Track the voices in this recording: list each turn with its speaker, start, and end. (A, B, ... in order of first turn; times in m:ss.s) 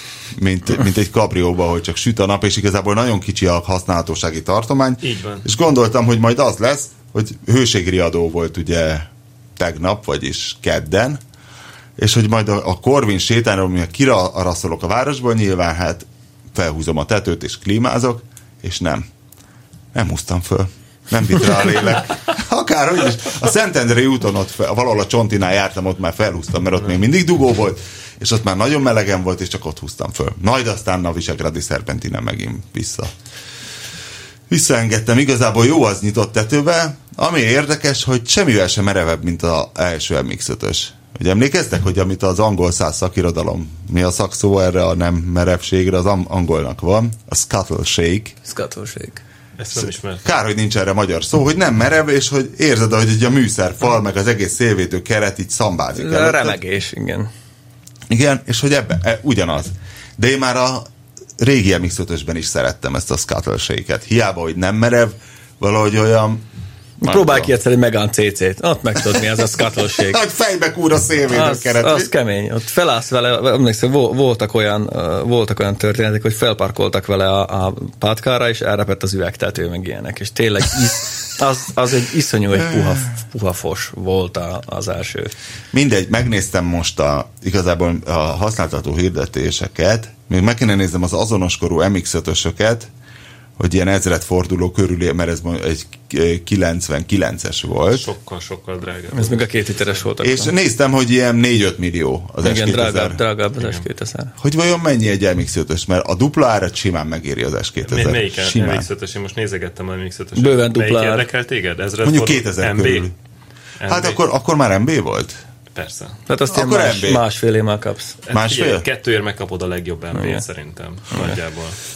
0:00.3-0:11.2 A
0:05.0-0:05.4 B
0:12.0-0:19.0 A
0:19.9-0:33.1 A
0:34.5-0:48.4 A
0:48.4-0:49.2 C
0:49.6-0:50.3 B
0:49.7-0:56.6 A
0:55.9-0:57.3 C
0:58.1-1:00.9 A
1:01.4-1:06.4 A
1:07.0-1:07.5 A
1:07.0-1:10.2 C
1:09.9-1:12.1 A
1:11.3-1:25.3 C
1:25.7-1:32.9 A
1:33.6-1:38.0 A
1:37.9-1:39.5 B
1:39.1-1:40.5 C
1:40.2-1:43.2 A
1:42.4-1:44.3 C
1:43.6-1:43.8 B
1:44.4-1:48.9 A
1:47.8-1:53.1 B
1:50.4-1:51.2 C
1:52.0-1:53.1 A
1:53.8-1:54.2 B
1:53.9-1:55.4 A
1:55.7-1:56.2 B
1:56.3-1:58.2 C
1:56.5-1:57.2 A
1:58.3-2:01.8 B
1:58.3-1:58.8 A
2:00.1-2:00.4 C